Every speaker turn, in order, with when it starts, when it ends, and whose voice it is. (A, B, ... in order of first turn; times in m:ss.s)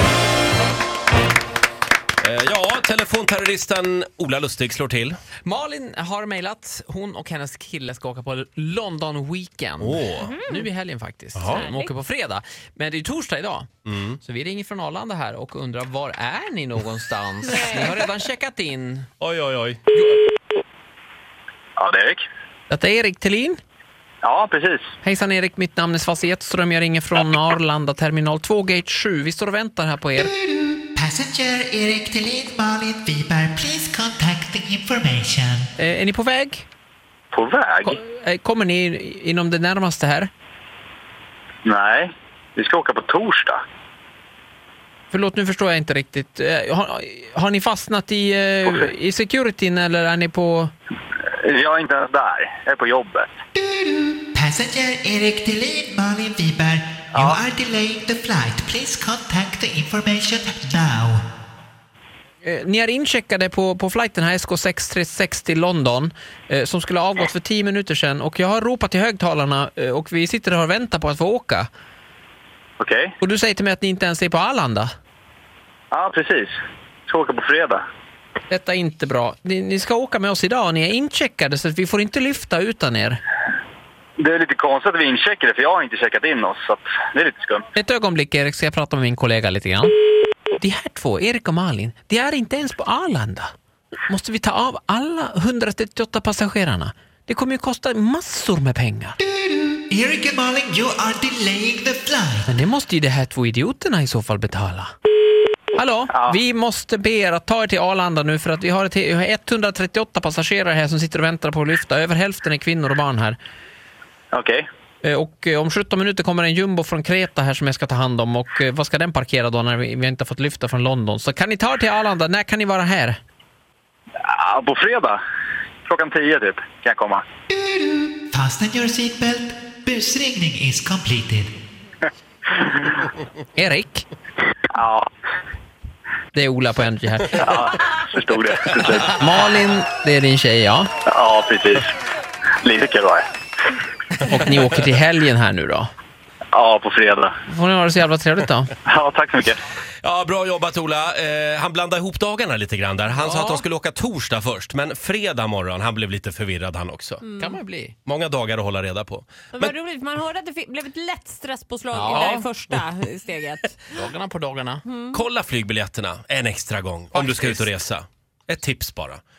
0:02.2-0:05.2 A
0:05.4-0:13.7 B
0:09.8-0:10.3 A
0:10.2-0:10.6 C
0:11.4-0:11.6 A
0:11.5-0:11.9 C
0:13.8-0:14.2 A
0:14.2-0:19.1 B
0:17.5-0:17.9 C
0:19.2-0:19.8 A
0:19.9-0:20.2 B
0:21.8-0:22.2 D
0:22.7-0:23.6 B
0:24.2-0:24.9 D
0:25.0-0:30.3 B
0:30.5-0:35.7 E
0:35.8-0:36.6 B
0:37.3-0:38.0 D
0:37.8-0:40.3 B
0:41.6-0:43.6 D
0:45.1-0:50.7 B
0:51.4-0:53.3 D
0:53.5-1:01.2 E
0:57.1-0:57.4 D
1:02.4-1:11.7 B
1:12.8-1:13.1 D
1:13.2-1:14.9 B
1:15.9-1:16.5 D
1:17.1-1:17.8 D
1:18.5-1:23.2 B
1:24.2-1:27.6 D
1:27.7-1:29.9 B
1:30.6-1:33.5 B
1:34.1-1:39.2 B
1:39.5-1:42.5 E
1:42.5-1:44.9 B
1:45.7-1:53.4 B
1:46.1-1:46.4 D
1:54.3-1:54.6 D
1:55.0-2:03.2 B
2:04.3-2:05.2 D
2:05.8-2:07.2 D
2:07.5-2:11.5 E
2:13.6-2:14.0 B
2:14.7-2:15.0 D
2:16.3-2:17.6 B
2:17.4-2:19.1 D
2:19.2-2:20.9 B
2:21.1-2:21.9 D
2:22.6-2:23.2 D
2:24.2-2:25.9 B
2:26.5-2:27.3 D
2:27.5-2:28.7 B
2:28.8-2:29.6 D
2:30.0-2:37.2 A
2:33.2-2:33.6 B
2:37.2-2:37.6 C
2:37.3-2:38.0 B
2:38.0-2:39.7 A
2:39.5-2:44.0 C
2:41.9-2:42.5 B
2:43.9-2:44.8 B
2:44.8-2:45.2 C
2:45.1-2:49.2 A
2:47.1-2:47.7 B